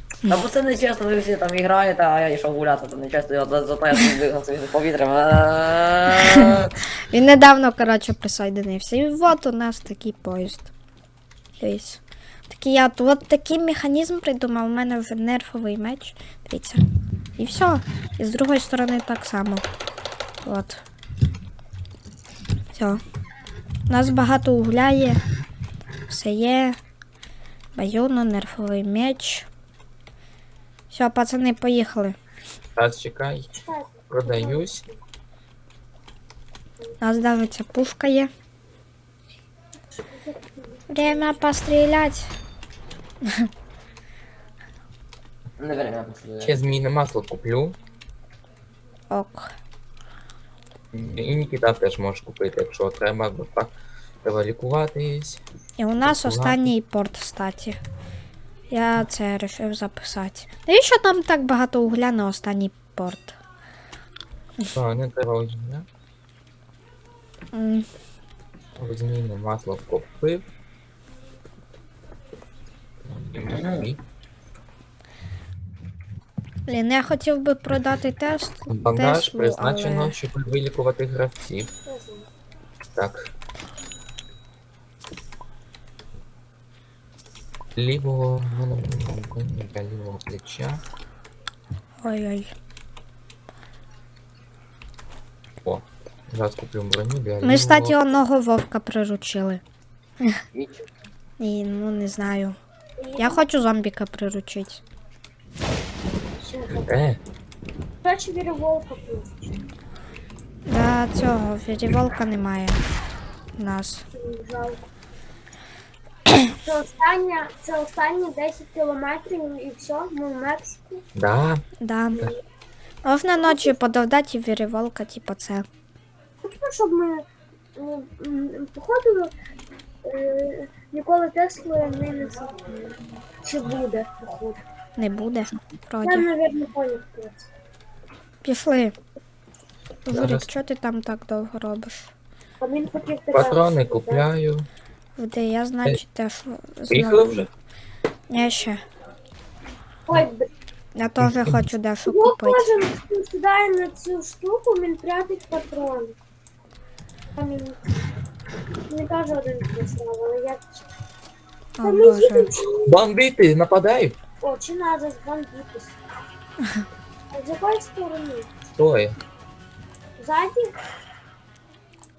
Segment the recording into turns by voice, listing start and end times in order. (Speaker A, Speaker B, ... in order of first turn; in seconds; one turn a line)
Speaker A: 0.3-6.7
Speaker B: 7.1-10.7
Speaker B: 11.6-16.8
Speaker B: 17.4-19.6
Speaker B: 20.4-20.8
Speaker B: 22.7-23.0
Speaker B: 23.9-25.2
Speaker B: 26.1-26.8
Speaker B: 27.8-29.5
Speaker B: 30.9-32.2
Speaker C: 32.8-33.6
Speaker D: 33.6-35.0
Speaker C: 34.1-34.8
Speaker B: 37.0-38.3
Speaker D: 39.9-41.3
Speaker B: 40.9-42.3
Speaker A: 45.6-46.7
Speaker C: 46.4-47.8
Speaker B: 49.1-49.5
Speaker C: 50.9-53.7
Speaker C: 54.2-55.4
Speaker B: 55.8-57.8
Speaker C: 56.0-56.7
Speaker B: 58.7-63.4
Speaker C: 64.7-65.9
Speaker B: 67.5-67.9
Speaker C: 68.8-70.4
Speaker C: 73.1-74.0
Speaker A: 73.5-73.9
Speaker B: 76.7-80.2
Speaker C: 78.7-81.7
Speaker D: 81.9-82.3
Speaker C: 82.9-83.3
Speaker C: 87.8-90.8
Speaker B: 92.0-92.5
Speaker C: 95.6-98.2
Speaker B: 97.4-99.6
Speaker A: 100.5-100.9
Speaker B: 101.4-102.6
Speaker D: 103.0-103.5
Speaker B: 103.2-104.8
Speaker D: 106.4-106.9
Speaker C: 106.9-107.2
Speaker D: 108.0-109.7
Speaker B: 110.7-112.8
Speaker B: 113.6-114.0
Speaker D: 114.1-114.8
Speaker D: 116.6-121.0
Speaker C: 121.2-121.6
Speaker B: 121.8-122.3
Speaker B: 123.0-125.7
Speaker D: 123.4-123.8
Speaker D: 126.4-127.2
Speaker D: 127.8-129.3
Speaker D: 130.0-134.6
Speaker B: 135.0-136.3
Speaker D: 136.0-137.5
Speaker B: 138.4-138.9
Speaker B: 140.1-142.1
Speaker C: 140.1-140.5
Speaker D: 142.6-144.3
Speaker C: 143.3-144.7
Speaker B: 145.2-147.3
Speaker C: 146.9-147.5
Speaker B: 148.3-148.8
Speaker D: 150.1-150.5
Speaker B: 151.0-152.7
Speaker C: 151.2-151.6
Speaker D: 152.1-156.2
Speaker D: 157.4-157.9
Speaker D: 158.9-160.9
Speaker B: 161.8-162.5
Speaker D: 161.8-163.0
Speaker C: 162.9-164.2
Speaker D: 164.4-166.0
Speaker D: 167.3-168.5
Speaker C: 168.8-169.2
Speaker D: 170.2-170.7